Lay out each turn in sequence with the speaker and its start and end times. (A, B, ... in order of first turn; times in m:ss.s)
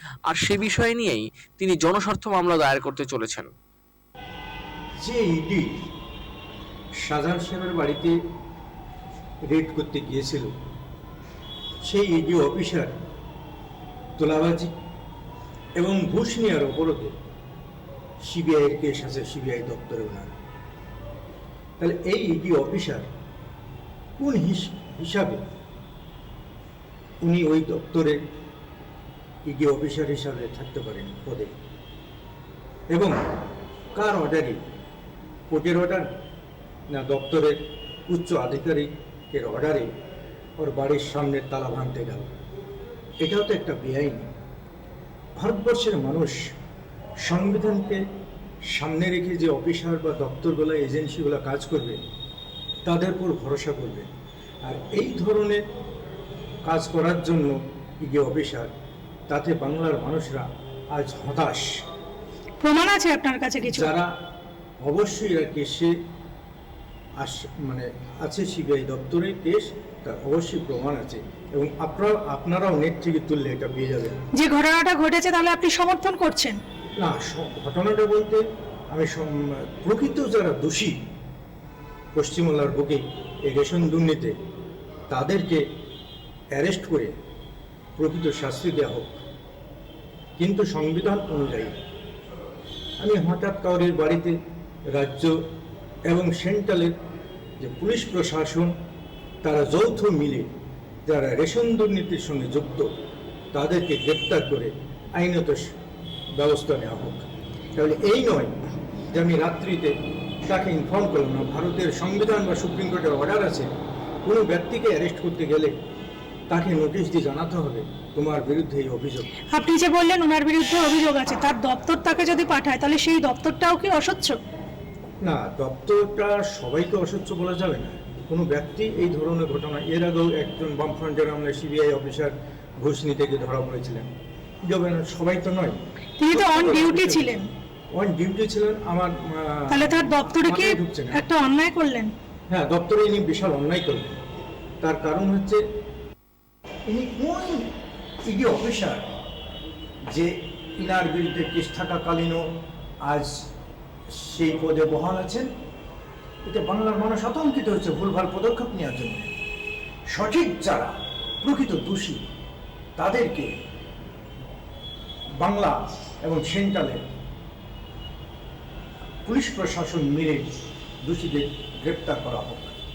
0:00.3-0:03.5 A
0:05.0-0:05.7 B
0:07.0-0:08.1 B
0:09.5-0:10.5 B
0:11.8-0:12.9 B
0:14.2-0:14.7 B
0:15.8-0:17.1 B
0:18.2-0:20.3 B
0:21.8-0:23.0 B
0:24.2-0:25.4 B
0:27.2-0:28.2 B
0:29.4-0:31.5 B
0:32.9-0:33.2 B
0:33.9-0:34.6 B
0:35.5-0:36.1 B
0:36.9-0:37.6 B
0:38.1-0:39.9 B
0:40.6-0:42.3 B
0:43.2-0:44.3 B
0:45.4-0:46.3 B
0:47.2-0:48.0 B
0:48.7-0:52.0 B
0:52.8-0:54.1 B
0:54.6-0:55.6 B
0:56.6-0:58.7 B
0:59.3-1:01.6 B
1:02.6-1:03.9 C
1:03.6-1:04.1 B
1:04.8-1:05.9 B
1:07.2-1:14.2 B
1:14.3-1:16.6 C
1:17.0-1:18.4 B
1:18.9-1:21.0 B
1:22.1-1:24.3 B
1:25.1-1:25.6 B
1:26.5-1:27.1 B
1:28.0-1:29.2 B
1:30.4-1:31.8 B
1:33.0-1:34.4 B
1:34.9-1:35.4 B
1:36.1-1:36.9 B
1:37.6-1:38.7 B
1:39.4-1:40.5 B
1:41.0-1:42.9 B
1:43.5-1:45.7 B
1:46.3-1:48.6 B
1:49.1-1:49.9 B
1:50.4-1:53.7 B
1:54.2-1:55.8 B
1:56.5-1:59.4 B
1:59.5-2:04.4 C
2:05.2-2:14.0 B
2:14.7-2:15.8 B
2:16.2-2:17.5 C
2:16.3-2:17.4 B
2:17.9-2:21.2 B
2:19.7-2:22.1 C
2:22.5-2:24.2 B
2:24.8-2:25.6 B
2:26.9-2:27.7 B
2:28.2-2:29.1 B
2:30.1-2:32.4 B
2:33.0-2:33.4 B
2:34.1-2:35.5 B
2:36.4-2:39.3 B
2:40.1-2:42.2 B
2:43.0-2:43.5 B
2:45.4-2:47.0 B
2:49.2-2:52.7 B